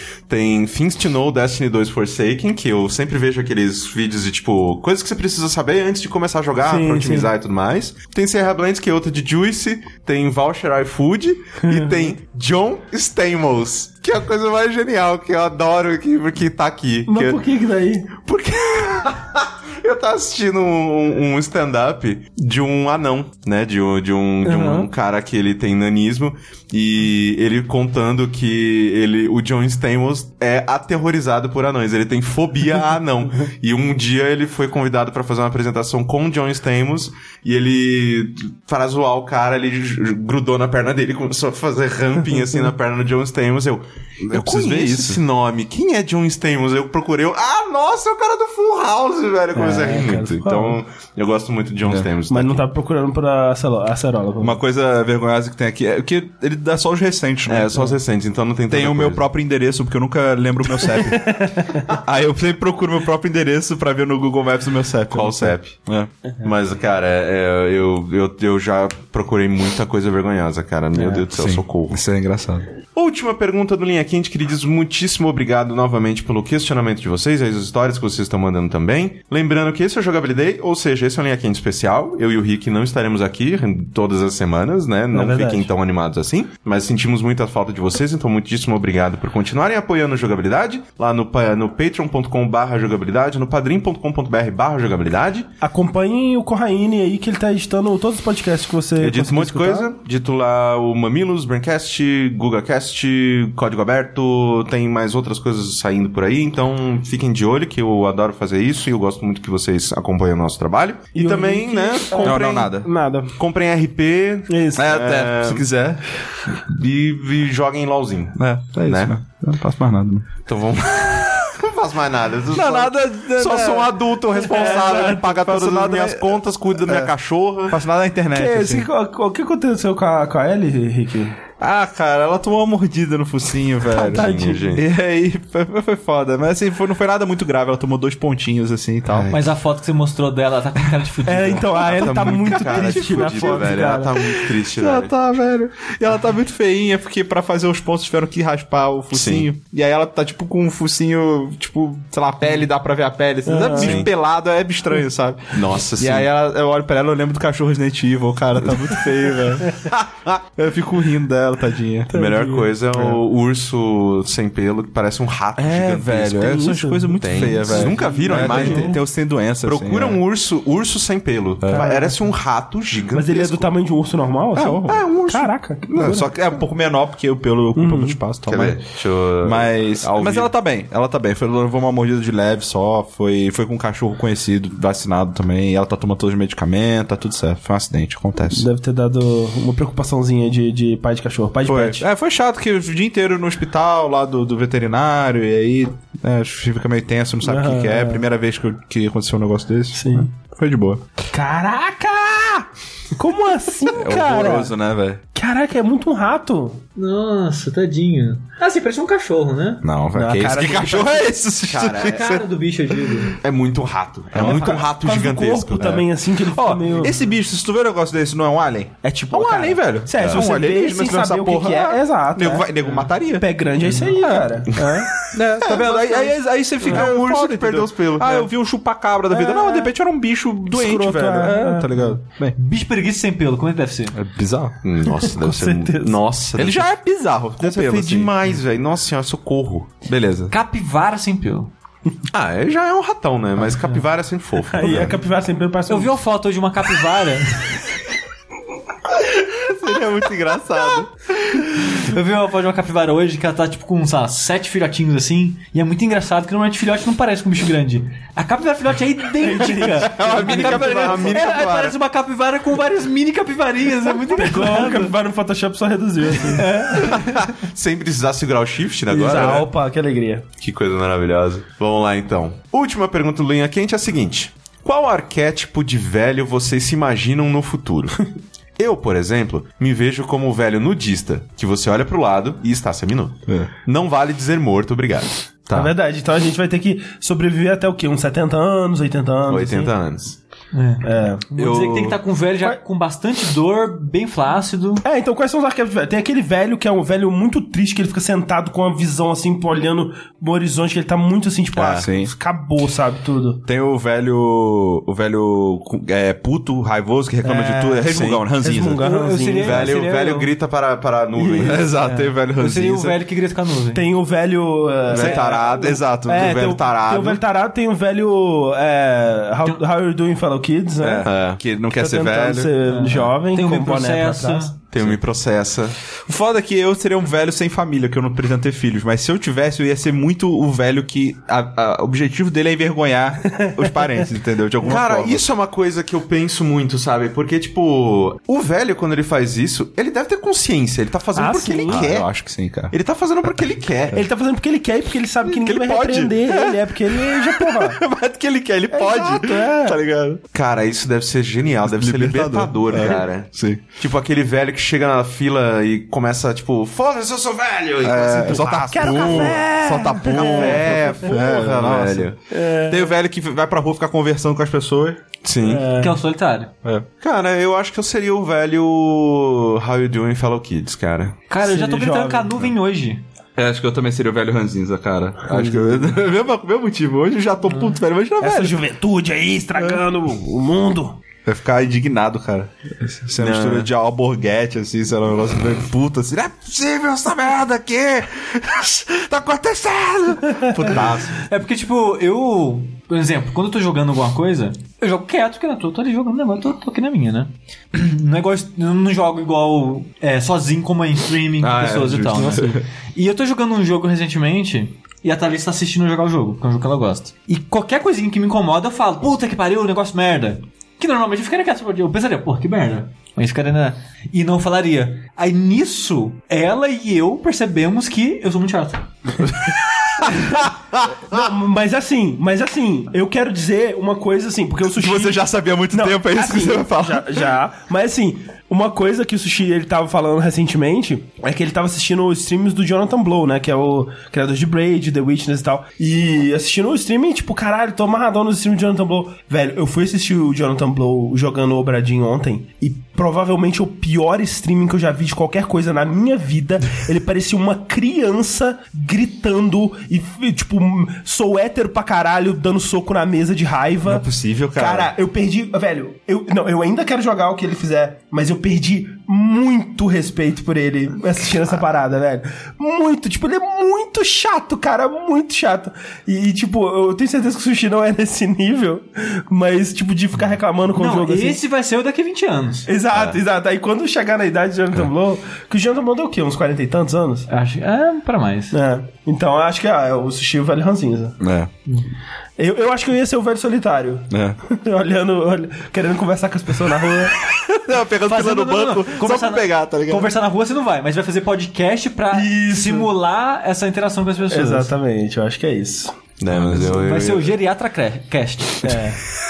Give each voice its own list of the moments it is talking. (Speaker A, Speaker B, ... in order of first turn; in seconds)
Speaker A: 0.3-17.4, 18.2-52.6, 57.5-59.2, 65.1-65.8, 66.4-72.0, 72.9-95.5, 99.0-112.8, 113.4-115.7, 116.5-119.2, 120.5-127.8, 134.1-134.8, 139.1-139.4, 141.8-145.1, 149.1-149.5, 153.7-154.1, 155.5-156.3, 159.9-160.4, 162.1-166.7, 167.2-169.0, 169.6-173.7, 174.8-176.2, 178.4-180.5, 211.7-212.4, 213.4-216.1, 226.8-228.5, 234.8-236.9, 237.6-239.9, 242.3-245.1, 260.1-261.9, 267.1-269.7, 270.6-278.2, 278.8-285.9, 289.5-290.4, 301.7-302.1, 308.1-308.4, 309.6-311.9, 315.1-317.4, 321.2-321.6, 324.9-325.9, 334.8-342.3, 342.9-344.2, 350.5-359.6, 360.3-362.4, 365.4-365.9, 367.2-371.3, 383.4-383.9, 496.4-497.5
Speaker B: 6.6-7.3, 11.6-12.1, 17.1-18.1, 24.4-24.9, 49.5-50.8, 52.3-54.6, 61.0-61.8, 70.9-71.2, 85.1-85.7, 95.6-99.9, 111.1-113.3, 114.5-115.0, 124.4-125.3, 128.3-131.4, 133.9-134.7, 141.2-144.5, 153.4-154.0, 162.1-162.7, 166.4-169.0, 171.7-172.2, 173.1-176.3, 177.7-178.2, 188.5-192.0, 197.4-198.2, 199.9-200.3, 201.3-204.7, 205.3-206.8, 210.1-211.3, 214.3-217.2, 219.0-226.2, 229.3-229.9, 230.7-232.1, 235.2-236.2, 244.7-246.1, 259.4-260.9, 264.3-267.1, 269.1-270.4, 285.7-289.9, 291.0-291.4, 295.0-303.6, 307.4-309.9, 311.4-312.3, 313.9-321.3, 321.9-324.7, 341.4-342.1, 344.1-348.0, 348.9-350.0, 358.5-361.3, 362.5-363.1, 365.6-366.2, 371.6-372.6, 375.5-376.0, 378.4-381.1, 402.3-402.8, 421.3-471.6, 472.9-477.5, 478.7-481.4, 482.6-487.4, 492.3-493.1, 494.5-496.1, 498.8-499.2
Speaker C: 44.2-45.2, 54.4-58.0, 58.7-66.1, 71.3-72.7, 112.2-112.9, 114.8-116.0, 118.4-120.3, 122.5-127.1, 127.7-128.9, 131.6-139.3, 142.1-159.8, 160.6-162.1, 162.9-163.2, 165.6-170.2, 171.6-171.9, 174.5-175.1, 175.9-178.8, 179.4-188.7, 191.7-201.0, 203.9-205.2, 209.8-212.4, 214.3-214.8, 216.5-232.6, 234.1-234.8, 236.6-238.3, 240.0-240.5, 249.3-252.0, 260.4-261.2, 291.6-292.2, 301.9-302.3, 303.7-309.0, 311.6-313.1, 315.1-316.5, 321.0-322.7, 326.2-335.4, 341.9-342.9, 345.4-350.4, 351.8-353.8, 358.0-365.2, 373.6-378.8, 381.4-391.4, 401.6-402.8, 419.4-420.6, 424.9-427.5, 454.0-455.1, 481.4-481.7, 484.3-484.6, 487.4-490.3, 496.5-497.0
Speaker D: 139.3-141.9, 206.9-209.8, 211.9-213.4, 223.8-224.1, 225.6-226.3, 232.6-234.1, 240.5-241.7, 245.9-247.8, 251.8-265.1, 266.5-267.4, 290.7-295.0, 309.0-310.5, 312.0-314.0, 322.8-324.7, 365.9-366.7, 371.5-373.2, 391.4-419.1, 470.9-472.9, 477.5-478.8, 488.2-494.9, 496.8-499.1